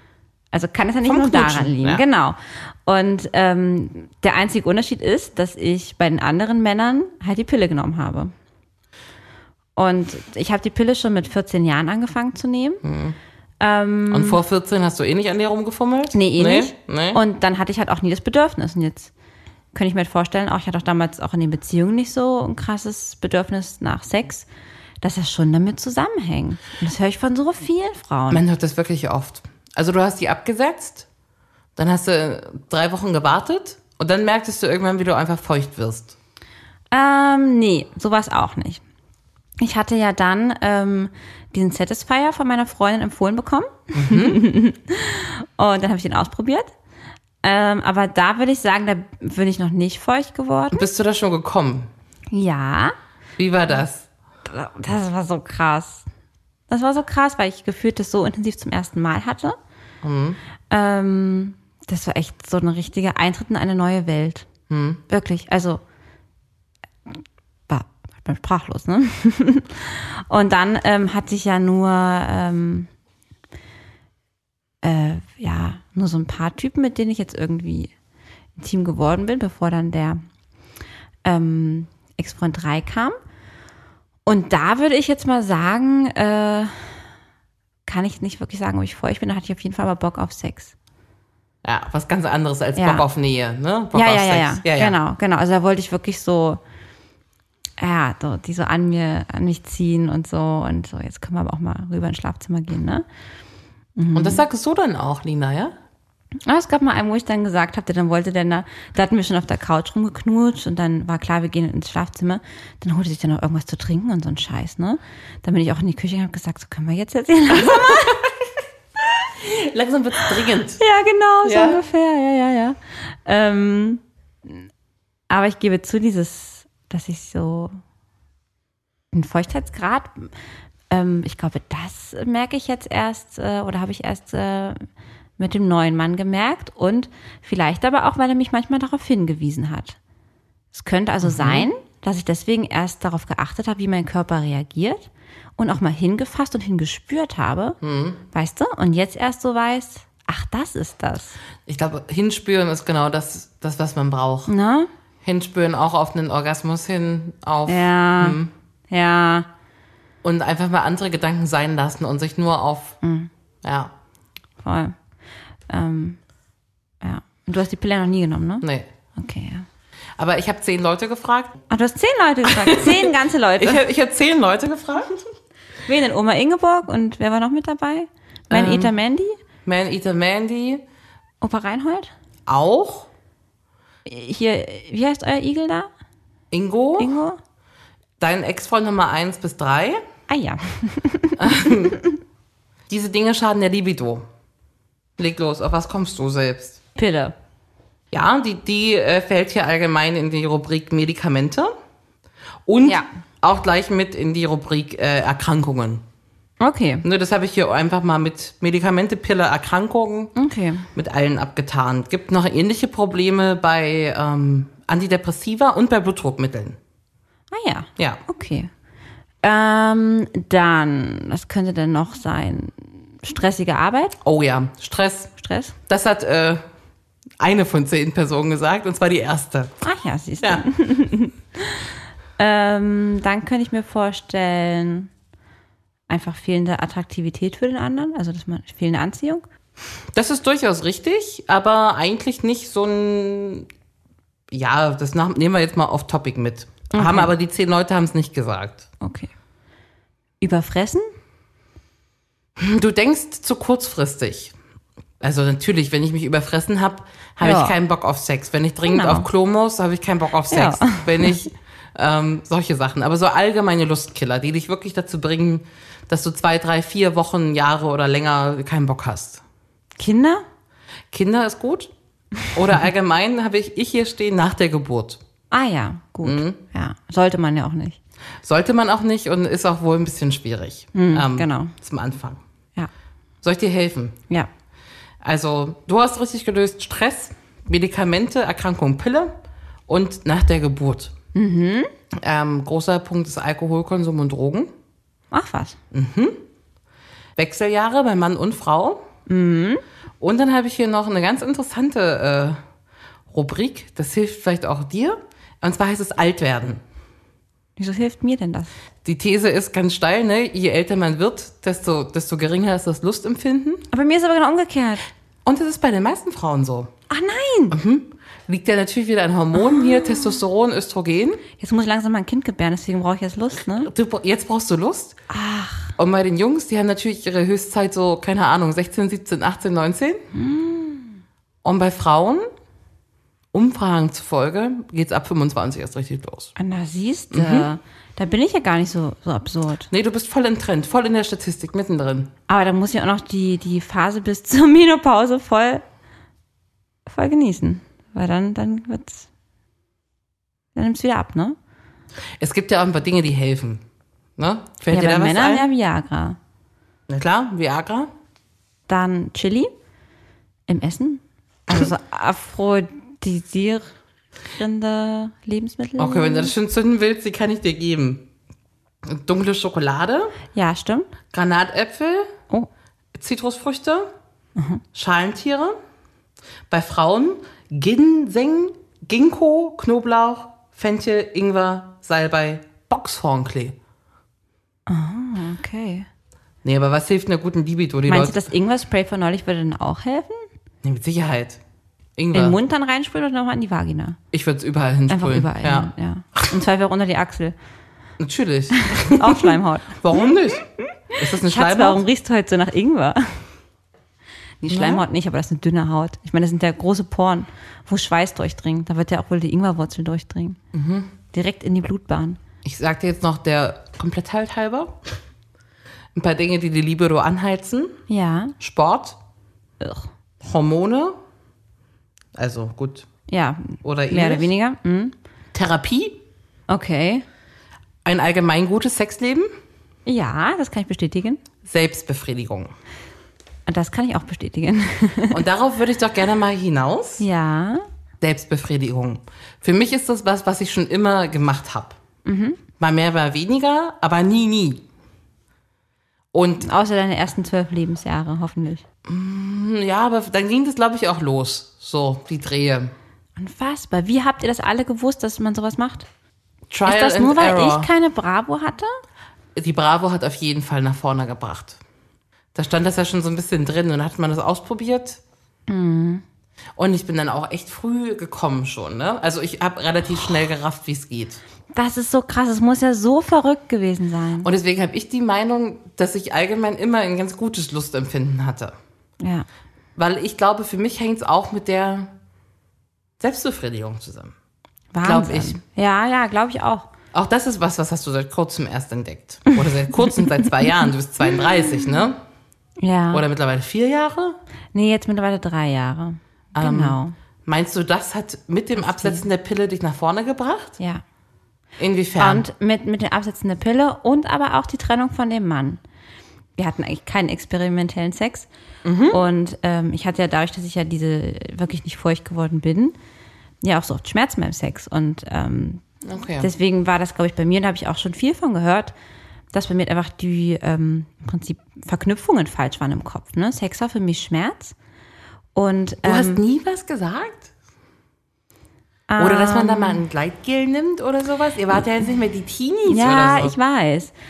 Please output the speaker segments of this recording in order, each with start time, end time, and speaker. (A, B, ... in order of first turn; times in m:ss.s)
0:00.5-0:08.3 A
0:01.0-0:02.0 B
0:09.8-0:12.8 A
0:12.8-0:13.2 B
0:13.6-0:14.4 A
0:14.1-0:17.2 B
0:16.1-0:19.1 A
0:19.7-0:24.5 A
0:25.0-0:28.4 A
0:28.3-0:31.0 B
0:31.8-0:36.1 B
0:36.9-0:38.8 A
0:39.6-0:46.7 A
0:43.9-0:44.4 B
0:47.4-0:50.8 A
0:50.7-0:51.9 B
0:52.3-0:52.9 A
0:53.4-0:54.1 B
0:54.4-0:56.0 A
0:56.7-0:59.6 A
1:00.0-1:00.4 B
1:00.7-1:04.5 A
1:04.7-1:05.0 B
1:05.1-1:05.8 A
1:07.7-1:12.9 A
1:14.8-1:17.9 A
1:18.6-1:20.2 A
1:21.2-1:23.2 A
1:24.2-1:27.0 A
1:27.8-1:30.7 A
1:31.6-1:35.0 B
1:32.8-1:33.0 A
1:33.9-1:36.6 A
1:37.8-1:43.0 A
1:44.0-1:44.4 A
1:44.1-1:45.7 B
1:46.4-1:58.2 A
1:57.5-1:58.2 B
1:59.4-2:00.8 B
2:00.8-2:04.6 A
2:01.4-2:01.8 B
2:05.3-2:07.8 A
2:09.1-2:10.3 A
2:10.9-2:14.8 A
2:15.4-2:20.0 A
2:20.7-2:27.8 A
2:21.2-2:21.7 B
2:27.8-2:28.2 B
2:28.3-2:31.4 A
2:31.7-2:34.5 B
2:34.5-2:34.9 A
2:35.2-2:38.5 B
2:37.7-2:38.4 A
2:38.9-2:39.5 A
2:40.2-2:43.0 B
2:43.0-2:43.3 A
2:43.6-2:43.9 B
2:44.6-2:45.0 A
2:45.7-2:46.2 A
2:47.0-2:49.6 A
2:48.6-2:48.9 B
2:50.2-2:51.6 B
2:51.7-2:53.8 A
2:52.5-2:53.1 B
2:53.6-2:55.2 B
2:55.9-2:59.4 A
2:58.5-2:58.9 B
2:59.6-3:00.8 B
3:01.4-3:02.1 A
3:02.5-3:03.1 B
3:04.0-3:05.9 A
3:06.5-3:07.1 B
3:07.0-3:07.4 A
3:08.2-3:10.0 B
3:10.3-3:11.9 A
3:11.4-3:12.0 B
3:12.9-3:14.2 B
3:15.2-3:16.8 B
3:17.0-3:17.3 A
3:18.1-3:21.7 B
3:22.6-3:26.0 B
3:26.6-3:27.0 A
3:27.0-3:30.3 B
3:30.4-3:30.8 A
3:30.9-3:36.8 B
3:37.5-3:38.7 A
3:39.4-3:44.2 A
3:44.2-3:45.3 B
3:45.4-3:45.7 A
3:45.9-3:46.6 B
3:47.4-3:49.8 B
3:49.8-3:51.9 A
3:50.4-3:50.7 B
3:52.4-3:55.1 A
3:56.1-3:59.4 A
4:00.1-4:03.7 B
4:04.5-4:08.9 B
4:06.9-4:07.3 A
4:09.0-4:09.3 A
4:10.4-4:11.1 A
4:12.6-4:14.5 B
4:15.2-4:29.4 B
4:17.4-4:17.7 A
4:18.9-4:19.3 A
4:20.5-4:21.4 A
4:30.0-4:30.4 A
4:31.1-4:31.9 B
4:32.5-4:35.2 B
4:35.5-4:38.0 A
4:36.2-4:36.6 B
4:38.4-4:42.4 B
4:40.9-4:41.7 A
4:43.4-4:44.2 B
4:45.2-4:49.3 B
4:49.9-4:51.1 B
4:51.3-4:51.9 A
4:52.2-4:54.7 B
4:55.3-4:55.8 A
4:55.9-4:56.4 B
4:57.4-4:59.0 B
4:59.3-4:59.8 A
5:00.2-5:02.6 B
5:03.3-5:06.8 B
5:07.8-5:08.7 A
5:09.0-5:13.8 B
5:13.9-5:15.0 A
5:15.4-5:16.9 B
5:17.1-5:17.8 A
5:17.7-5:21.4 B
5:19.6-5:20.4 A
5:21.6-5:23.9 A
5:23.8-5:25.2 B
5:25.3-5:25.9 A
5:26.0-5:30.2 B
5:30.3-5:31.2 A
5:31.6-5:32.5 B
5:33.5-5:36.5 B
5:36.6-5:39.9 A
5:37.3-5:37.7 B
5:39.9-5:42.3 B
5:42.5-5:45.8 A
5:47.0-5:49.2 A
5:50.7-5:51.6 A
5:52.4-5:53.8 B
5:54.4-5:55.7 B
5:54.9-5:56.4 A
5:57.1-5:58.1 B
5:58.9-5:59.7 A
6:00.7-6:03.9 A
6:04.6-6:06.5 A
6:06.0-6:08.2 B
6:09.0-6:10.4 B
6:10.5-6:11.1 A
6:11.3-6:12.3 B
6:13.1-6:14.1 B
6:14.6-6:14.8 A
6:14.9-6:15.8 B
6:16.7-6:23.7 B
6:24.9-6:26.1 A
6:26.6-6:28.5 B
6:28.1-6:30.4 A
6:30.8-6:31.6 B
6:32.2-6:32.6 B
6:32.3-6:34.2 A
6:34.3-6:36.5 B
6:35.1-6:37.5 A
6:38.2-6:42.0 B
6:38.9-6:40.0 A
6:41.2-6:43.4 A
6:44.6-6:50.6 A
6:44.7-6:45.0 B
6:50.7-6:51.1 B
6:51.3-6:52.4 A
6:52.6-6:55.0 B
6:56.2-6:58.0 B
6:58.1-6:58.5 A
6:58.6-6:59.2 B
6:59.8-7:00.1 A
7:00.4-7:01.2 B
7:02.4-7:03.1 B
7:03.3-7:05.1 A
7:03.8-7:04.5 B
7:05.5-7:06.2 B
7:06.7-7:07.2 A
7:08.0-7:09.5 B
7:10.0-7:11.4 A
7:11.6-7:12.7 B
7:13.7-7:15.4 A
7:15.3-7:17.2 B
7:17.2-7:17.8 A
7:18.2-7:22.0 B
7:22.2-7:22.6 A
7:22.8-7:24.8 B
7:26.3-7:26.7 B
7:26.6-7:28.8 A
7:29.0-7:32.9 B
7:33.4-7:36.0 A
7:36.7-7:37.9 B
7:36.8-7:38.9 A
7:39.6-7:41.8 B
7:42.5-7:45.2 B
7:45.7-7:46.2 A
7:46.8-7:51.4 B
7:51.7-7:54.5 A
7:54.4-7:58.7 B
7:59.2-7:59.5 A
8:00.0-8:02.1 B
8:03.2-8:04.3 B
8:04.9-8:06.9 A
8:05.0-8:05.6 B
8:07.1-8:12.2 B
8:12.8-8:13.2 A
8:13.1-8:14.4 B
8:14.7-8:17.1 A
8:16.6-8:20.8 B
8:18.8-8:19.2 A
8:21.8-8:22.4 B
8:22.2-8:25.8 A
8:26.6-8:28.5 A
8:28.8-8:29.2 B
8:29.1-8:33.0 A
8:33.6-8:35.8 A
8:36.0-8:36.5 B
8:36.4-8:38.9 A
8:39.5-8:44.7 A
8:45.5-8:46.4 A
8:46.0-8:47.5 B
8:49.1-8:50.0 A
8:49.2-8:53.5 B
8:52.9-8:54.1 A